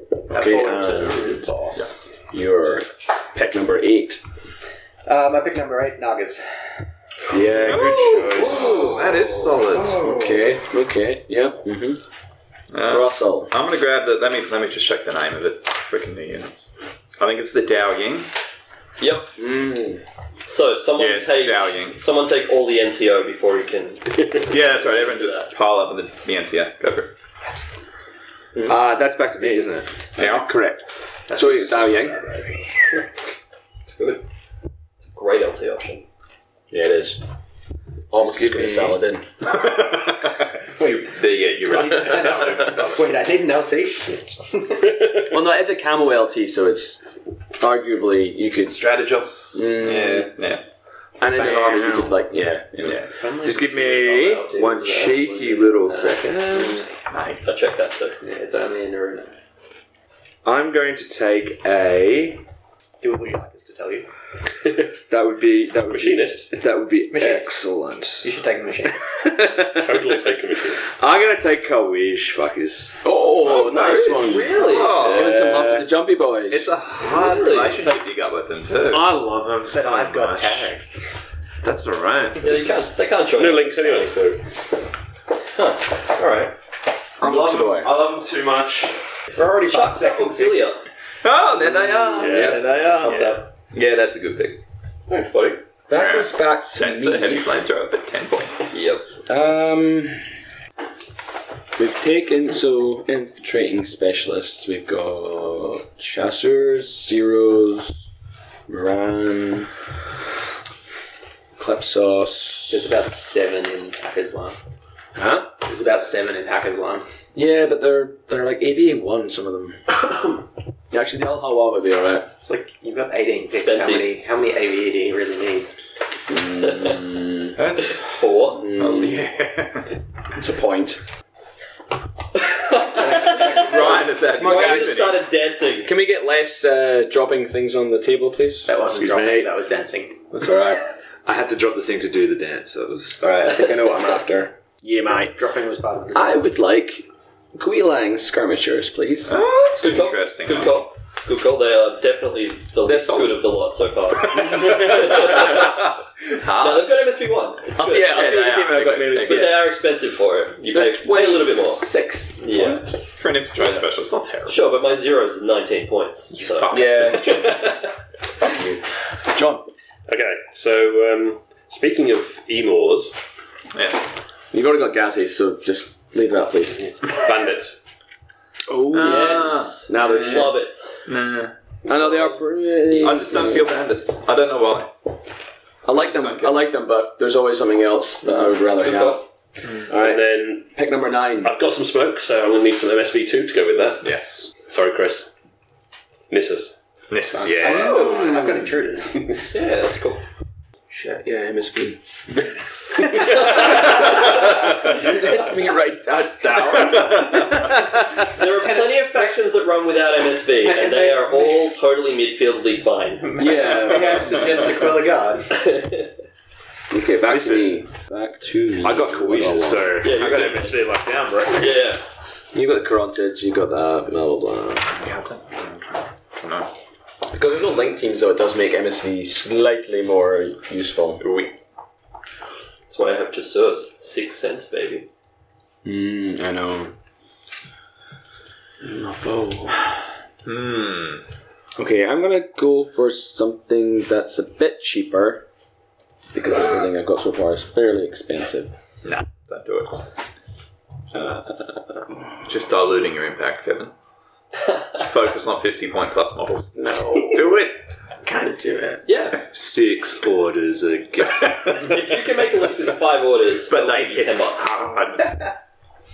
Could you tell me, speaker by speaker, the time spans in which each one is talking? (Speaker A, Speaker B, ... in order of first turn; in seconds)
Speaker A: 0.3-1.5, 2.3-4.2, 7.3-8.7, 9.9-12.0, 12.8-13.5, 19.4-20.0, 30.2-32.3, 36.7-37.2, 38.1-39.2, 45.2-47.0, 47.6-48.8, 49.5-50.3, 51.2-53.0, 73.0-76.7, 87.2-87.9, 92.2-92.6, 95.9-97.5, 99.2-100.2, 101.8-108.0, 108.7-109.7, 111.6-112.9, 115.1-115.5, 117.3-119.8, 120.9-122.3, 126.3-127.6, 128.6-129.2, 130.3-131.0, 134.4-134.9, 135.8-139.5, 140.3-140.8, 143.2-145.4, 146.1-149.4, 157.8-159.6, 160.7-162.8, 166.7-167.6, 168.5-169.7, 174.5-176.9, 178.7-180.5, 181.8-183.7, 185.8-189.2, 189.9-191.5, 197.6-198.7, 201.1-208.4, 213.4-214.3, 216.9-220.0, 222.5-225.0, 227.3-231.2, 235.8-236.9, 238.8-239.9, 241.8-245.4, 246.3-248.7, 251.1-252.3, 256.7-257.5, 258.3-259.0
Speaker B: 0.3-1.9, 5.0-6.7, 8.4-9.0, 31.3-32.6, 41.6-45.2, 53.0-56.8, 58.2-59.3, 63.0-64.1, 67.1-67.6, 68.2-69.1, 79.6-80.8, 89.3-90.7, 112.7-114.6, 115.6-117.0, 122.4-125.7, 133.0-134.1, 138.6-140.2, 143.5-143.7, 145.1-146.5, 197.4-199.4, 200.9-201.2, 208.4-209.4, 210.6-211.7, 213.2-215.6, 258.4-258.9
Speaker C: 7.3-9.0, 28.6-30.1, 38.2-39.0, 51.3-52.2, 53.4-56.9, 60.4-62.4, 65.1-68.3, 68.9-73.1, 75.1-75.8, 78.9-80.7, 81.6-82.9, 87.2-89.0, 92.3-92.6, 141.2-143.3, 197.4-197.9, 217.2-217.8, 218.8-221.8, 259.4-261.9
Speaker D: 7.6-10.4, 12.7-18.3, 20.9-22.0, 24.5-27.1, 30.1-30.5, 39.4-43.1, 48.6-50.6, 52.8-53.1, 57.1-57.5, 74.6-75.4, 76.5-79.2, 91.2-94.6, 95.9-98.7, 127.5-130.0, 133.3-135.3, 149.2-150.8, 152.8-153.3, 154.3-157.1, 157.9-159.6, 163.1-164.7, 166.3-167.6, 173.7-174.0, 178.9-180.5, 181.1-181.5, 182.9-184.9, 185.9-186.7, 194.0-194.5, 197.1-198.3, 203.9-204.9, 206.6-207.8, 224.9-226.7, 231.2-231.5, 240.4-241.2, 249.0-250.0, 252.4-253.9, 254.9-256.7, 257.3-257.7, 263.7-265.5
Speaker E: 19.0-19.3, 20.4-25.5, 33.9-34.2, 35.0-36.0, 57.4-58.2, 73.5-75.0, 77.0-77.9, 82.4-83.7, 85.5-86.5, 89.4-90.8, 92.3-93.4, 95.1-95.6, 98.7-99.1, 123.5-124.1, 126.6-127.0, 127.8-128.7, 132.4-133.7, 134.3-135.9, 149.8-155.8, 156.5-162.8, 164.4-167.9, 179.0-181.1, 181.9-182.4, 188.3-189.2, 197.6-198.5, 199.5-200.2, 203.2-204.4, 205.0-205.5, 208.3-213.3, 215.5-216.1, 220.0-220.8, 221.5-222.0, 232.9-235.1, 259.1-259.4, 261.8-264.7
Speaker F: 65.9-66.5, 69.7-70.9, 75.3-75.7, 83.3-84.5, 92.2-92.6, 170.1-173.2, 177.0-177.7, 189.9-190.7, 191.4-195.3, 196.3-196.8